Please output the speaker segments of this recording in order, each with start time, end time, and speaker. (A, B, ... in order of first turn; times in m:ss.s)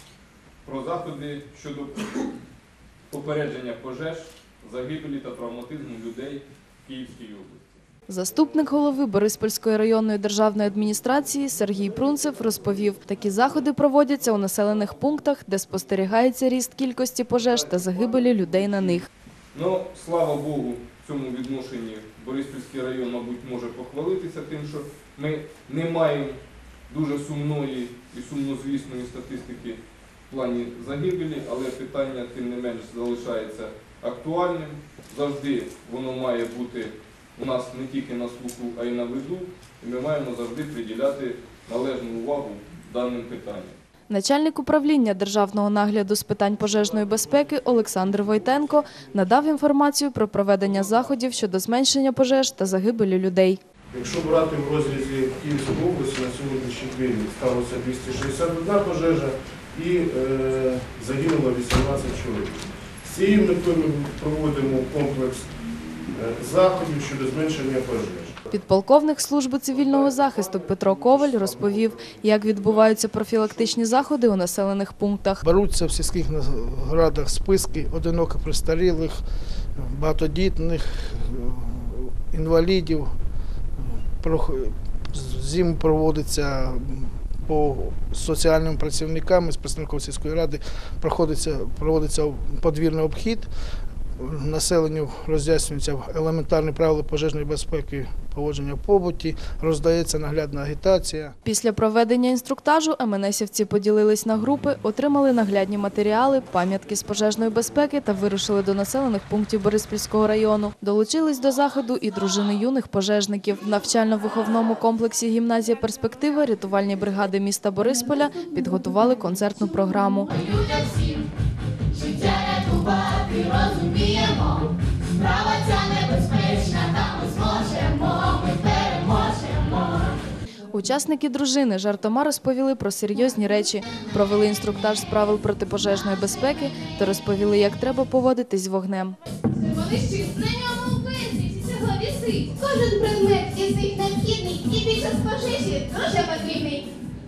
0:00.6-0:02.4 A
0:03.1-0:07.8 A
0:08.1-0:19.1 B
0:14.2-0:16.2 A
0:18.0-0:19.0 C
0:19.5-0:43.8 A
0:44.1-0:53.6 B
0:53.9-1:05.5 C
1:06.1-1:08.4 C
1:08.5-1:15.4 B
1:09.7-1:14.0 C
1:15.4-1:19.2 D
1:19.8-1:23.1 D
1:23.8-1:33.5 D
1:34.2-1:41.4 D
1:41.4-2:00.5 B
2:00.4-2:01.2 E
2:01.9-2:10.2 E
2:10.7-2:19.2 B
2:19.5-2:26.9 E